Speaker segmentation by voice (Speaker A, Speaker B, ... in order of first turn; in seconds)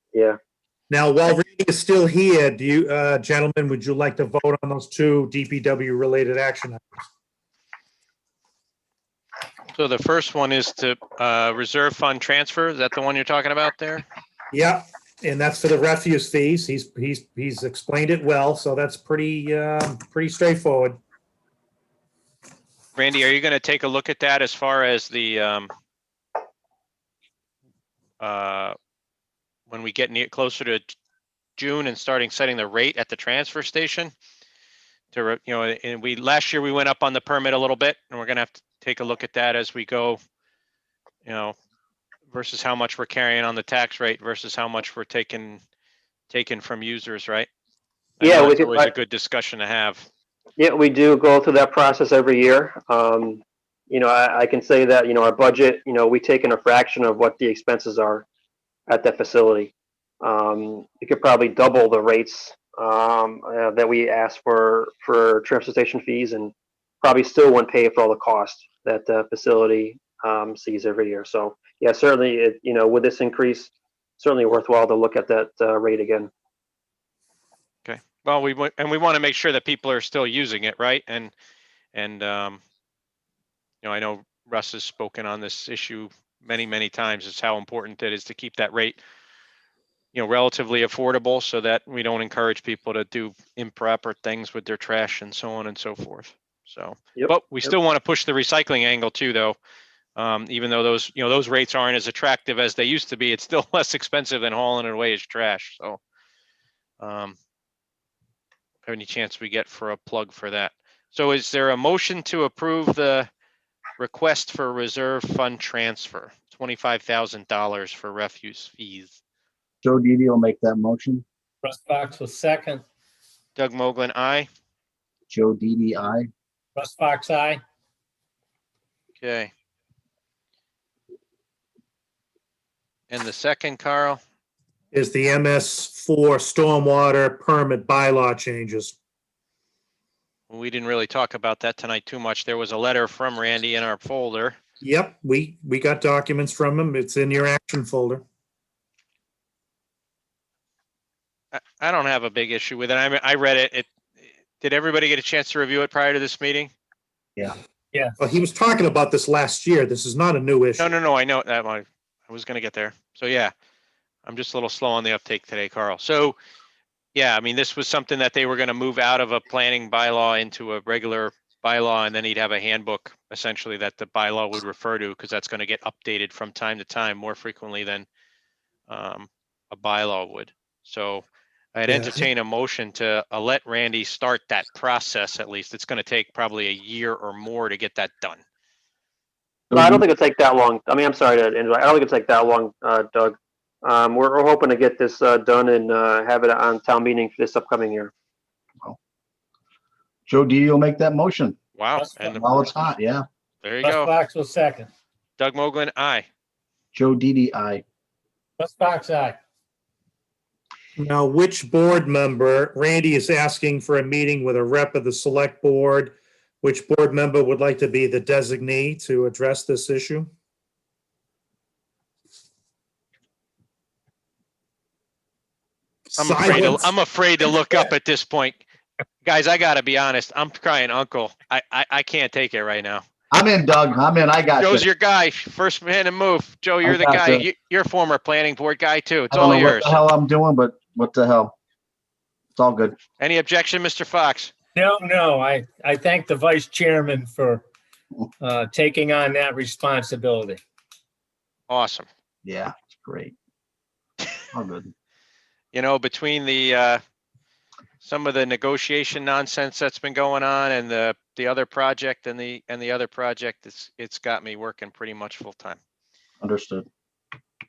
Speaker A: 0.9-6.8, 14.5-21.0, 134.9-138.9, 144.8-148.2, 158.2-160.9, 181.9-182.2, 211.0-220.3, 226.1-226.9
Speaker B: 9.7-14.0, 22.9-25.7, 28.2-28.7, 29.7-30.9, 31.6-34.1, 35.1-40.2, 41.2-41.5, 42.3-45.6, 46.3-47.5, 48.2-50.0, 77.8-81.3, 81.9-82.6, 83.8-89.0, 90.1-99.6, 100.2-106.0, 107.0-107.3, 108.8-113.3, 114.0-119.2, 123.5-124.5, 129.2-129.5, 133.1-134.2, 140.5-144.6, 151.5-153.9, 154.6-156.7, 160.8-163.5, 164.2-166.3, 167.1-178.1, 178.9-188.4, 201.8-202.6, 203.6-204.1, 205.4-206.3, 226.2-228.6, 229.2-233.0, 234.6-240.0, 243.2-244.5, 251.7-252.1, 255.7-257.0, 258.0-265.8
Speaker C: 48.2-48.9, 50.6-58.2, 58.9-76.3, 189.7-198.1
Speaker D: 119.8-121.2, 125.3-126.3, 189.7-190.0, 200.3-201.6, 202.3-203.2, 206.9-207.8, 233.3-234.9, 236.8-237.4, 239.3-241.5, 242.5-242.9, 252.4-253.3, 254.5-254.9, 266.4-266.9
Speaker E: 121.6-122.8, 126.8-127.6, 201.9-202.4, 203.8-204.9, 208.6-209.4, 244.7-247.7, 248.4-250.6